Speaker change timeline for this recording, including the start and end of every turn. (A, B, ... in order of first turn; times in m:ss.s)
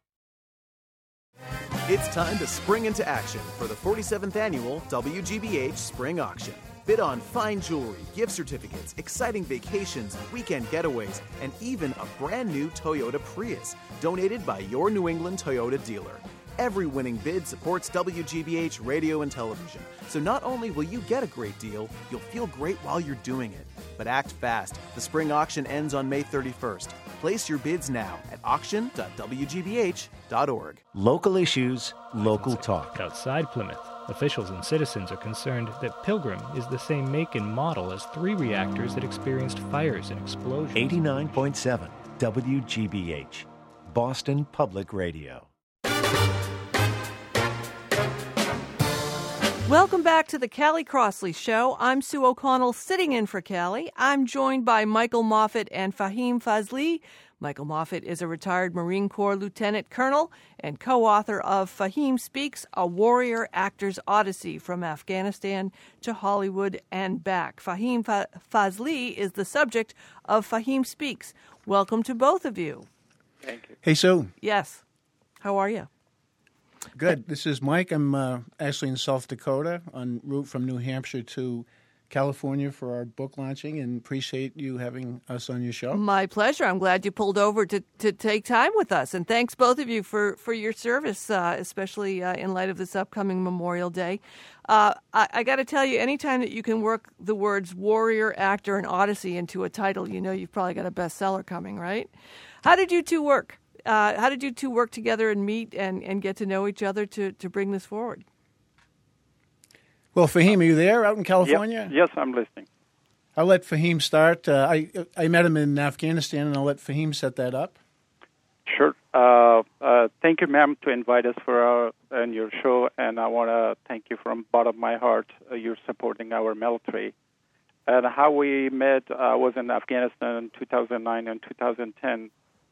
0:01.9-0:30.9 A
0:30.9-0:33.0 B
0:32.2-0:41.4 C
0:40.7-0:45.5 B
0:49.7-1:12.9 D
1:13.4-1:13.8 E
1:13.8-1:14.3 F
1:14.4-1:14.8 D
1:15.4-1:15.9 D
1:17.0-1:26.0 F
1:25.9-1:42.1 D
1:42.6-1:48.2 D
1:50.2-1:51.9 F
1:51.4-1:52.7 E
1:53.4-1:57.8 F
1:58.7-2:07.1 E
2:07.9-2:12.3 E